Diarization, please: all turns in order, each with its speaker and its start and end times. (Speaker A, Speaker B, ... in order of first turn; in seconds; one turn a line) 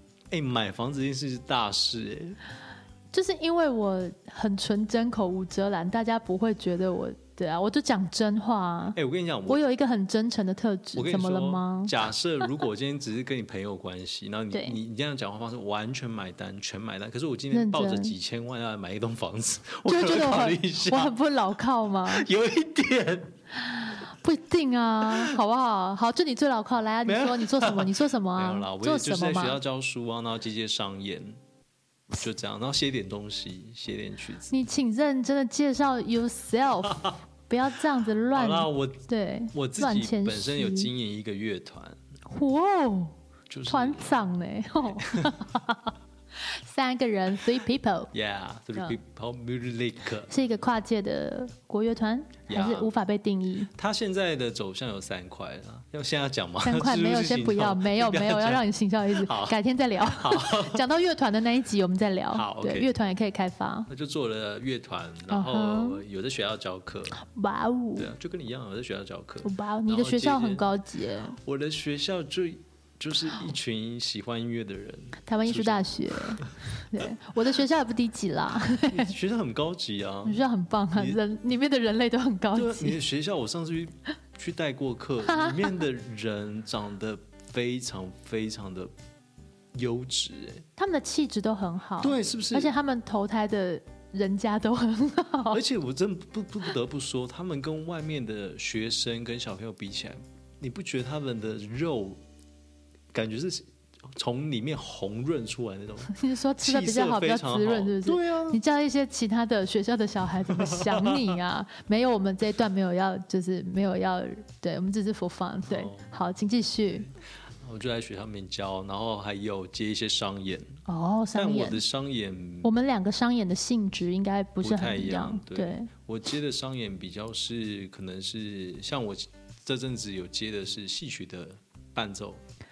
Speaker A: 0.3-2.4
Speaker B: 3.1-11.9
Speaker A: 8.9-9.6
Speaker A: 10.9-21.1
Speaker B: 14.5-14.8
Speaker B: 17.5-18.1
Speaker B: 19.9-22.3
Speaker A: 22.1-23.3
Speaker B: 23.6-29.6
Speaker A: 25.1-25.3
Speaker A: 27.0-31.4
Speaker A: 32.1-34.5
Speaker B: 34.5-40.9
Speaker A: 36.8-37.1
Speaker A: 38.3-42.0
Speaker B: 42.3-43.1
Speaker A: 43.5-44.2
Speaker B: 43.7-48.1
Speaker A: 45.0-45.4
Speaker A: 48.1-50.3
Speaker B: 50.3-53.7
Speaker A: 52.5-53.0
Speaker A: 53.7-60.8
Speaker B: 56.6-63.9
Speaker A: 62.3-62.9
Speaker A: 63.9-67.2
Speaker B: 65.3-66.0
Speaker B: 67.2-68.1
Speaker A: 68.0-70.7
Speaker B: 69.4-71.4
Speaker A: 71.3-76.5
Speaker B: 75.2-79.1
Speaker A: 78.6-80.4
Speaker B: 80.2-83.0
Speaker A: 80.9-81.2
Speaker A: 82.5-88.9
Speaker B: 85.2-85.8
Speaker A: 89.7-90.6
Speaker B: 90.8-95.6
Speaker A: 92.0-92.7
Speaker A: 95.5-102.2
Speaker A: 103.1-108.6
Speaker B: 106.1-117.1
Speaker A: 110.5-111.3
Speaker A: 115.7-116.1
Speaker A: 117.5-120.8
Speaker B: 120.9-121.8
Speaker A: 121.3-122.7
Speaker B: 122.6-125.9
Speaker A: 124.6-132.4